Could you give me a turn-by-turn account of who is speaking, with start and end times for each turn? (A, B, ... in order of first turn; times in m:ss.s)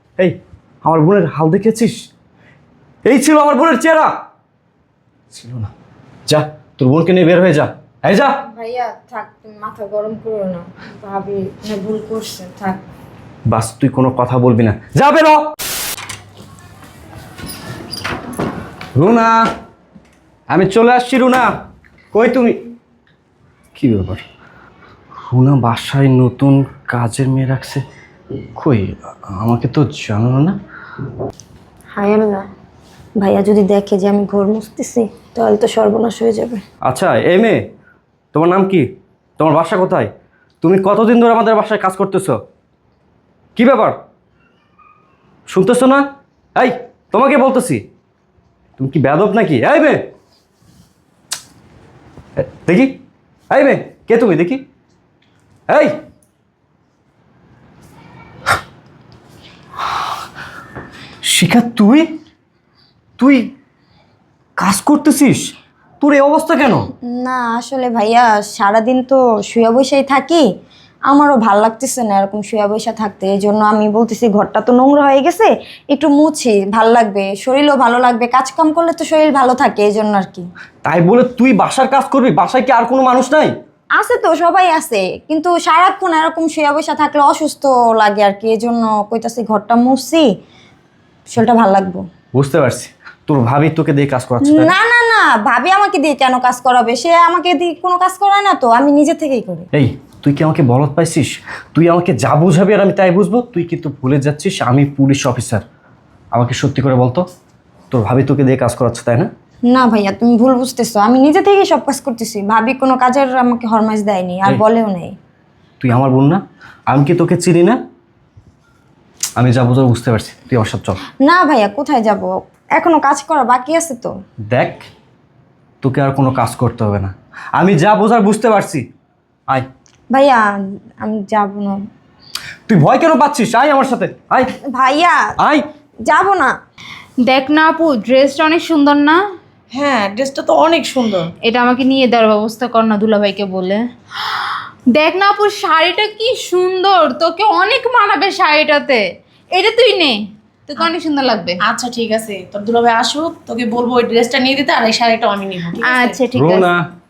0:00.2-0:02.0 A
0:03.0-0:04.1 A
0:05.3-0:05.7 A
0:06.3-0:08.4 A
0:08.5-0:12.8 B
0:13.5-0:15.5 A
0:18.9-0:19.4 A
0:20.5-0:21.5 A
0:22.1-0:22.6 A
0:23.7-0:24.2 A
0:25.2-0:27.8 A
0:28.5-0:30.6 A
0:31.9-0:32.4 B
0:33.2-0:36.6 B
0:36.8-0:37.6 A
0:38.3-0:38.9 A
0:39.4-0:42.4 A
0:43.6-0:44.0 A
0:45.5-0:47.8 A
0:48.8-0:50.0 A
0:52.4-0:53.0 A
0:53.5-0:54.6 A
0:55.7-0:56.0 A
1:01.2-1:02.1 A
1:03.2-1:03.5 A
1:04.6-1:06.9 A
1:07.1-1:10.4 B
1:11.1-1:20.5 B
1:20.8-1:23.5 A
1:24.0-1:30.3 B
1:31.3-1:32.0 B
1:32.3-1:34.7 A
1:34.4-1:39.7 B
1:39.7-1:45.6 A
1:46.3-1:47.2 A
1:47.9-1:49.3 A
1:49.7-1:55.2 B
1:55.8-1:57.8 A
1:59.4-2:01.0 A
2:01.2-2:04.2 B
2:04.5-2:04.9 A
2:05.8-2:08.8 A
2:10.1-2:10.4 B
2:11.0-2:11.8 B
2:12.7-2:14.5 A
2:14.7-2:15.2 B
2:15.4-2:15.6 A
2:16.0-2:16.5 B
2:17.2-2:19.2 C
2:19.7-2:21.3 D
2:21.4-2:31.6 C
2:31.6-2:36.2 D
2:35.8-2:36.7 C
2:36.3-2:36.8 A